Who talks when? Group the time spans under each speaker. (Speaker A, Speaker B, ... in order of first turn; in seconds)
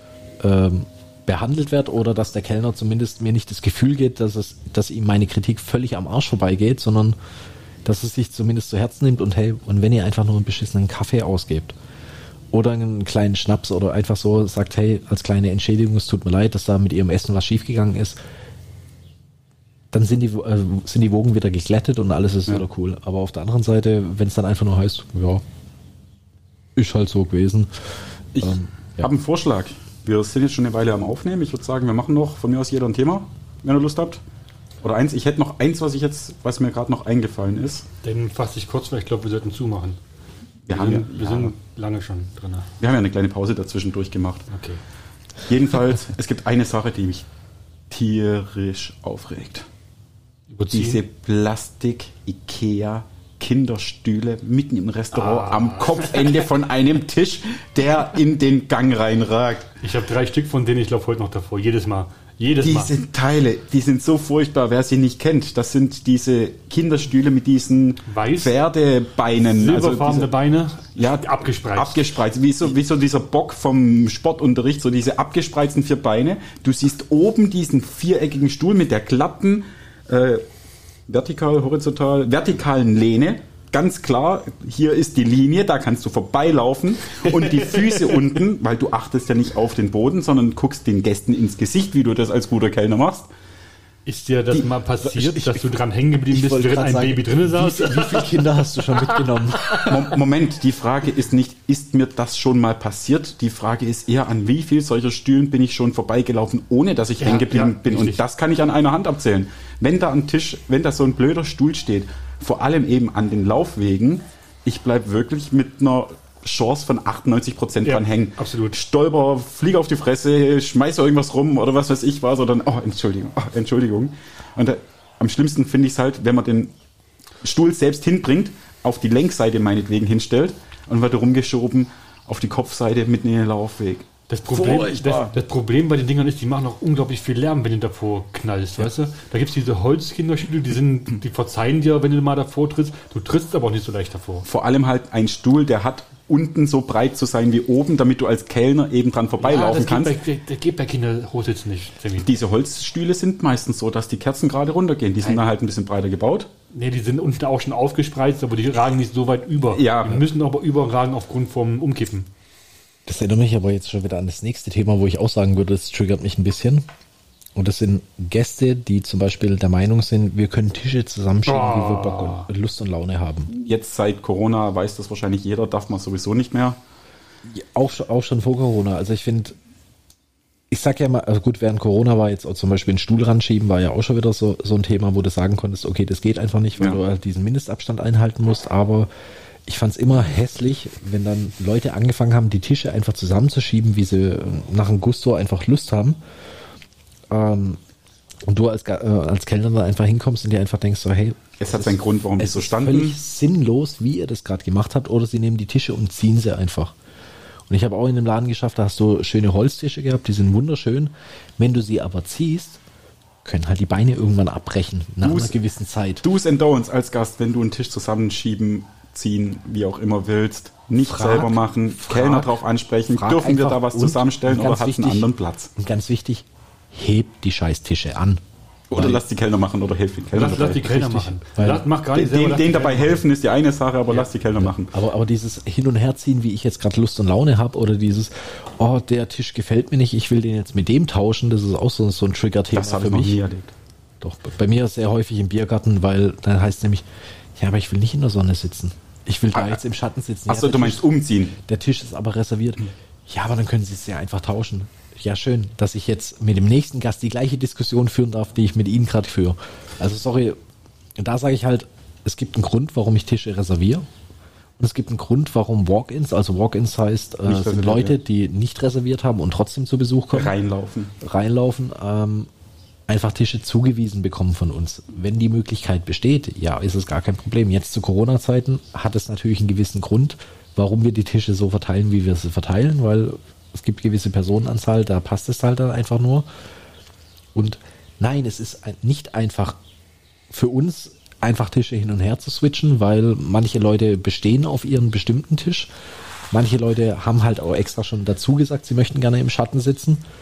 Speaker A: 0.4-7.2, 7.8-11.8, 12.5-18.2, 19.9-25.4, 26.8-29.1, 95.1-95.6, 96.3-99.8, 163.1-166.8, 167.5-173.5, 177.4-179.6, 180.7-189.1, 189.7-196.2, 197.3-197.8, 198.5-206.9, 207.7-212.8, 213.4-216.2, 221.0-222.5, 223.1-228.4, 228.9-229.2, 230.6-231.9, 234.7-243.4, 244.2-251.1, 251.6-260.6, 261.2-264.0, 264.8-270.5, 271.2-272.5, 273.1-286.5, 287.5-289.8, 290.5-295.9, 296.5-300.2
Speaker B: 28.4-34.2, 34.8-37.9, 40.7-41.5, 42.8-44.5, 45.5-47.2, 47.9-49.7, 50.7-59.7, 62.6-70.3, 71.0-80.4, 81.1-93.3, 99.8-126.7, 127.4-135.3, 144.4-150.2, 152.2-156.5, 159.7-160.2, 173.5-176.8, 201.6-203.2, 215.2-215.5, 216.2-225.7, 228.9-231.1, 232.1-234.9, 242.7-243.7, 250.5-251.6, 267.5-268.2, 270.3-271.1
Speaker C: 38.0-40.0, 40.7-42.7, 44.5-44.8, 50.5-51.0, 55.1-56.4, 59.8-62.9, 68.1-68.5, 69.3-72.1, 87.2-88.2, 94.0-100.0, 107.2-108.2, 117.8-118.8, 134.3-144.4, 149.4-152.3, 156.7-162.3, 171.4-172.5, 230.3-233.2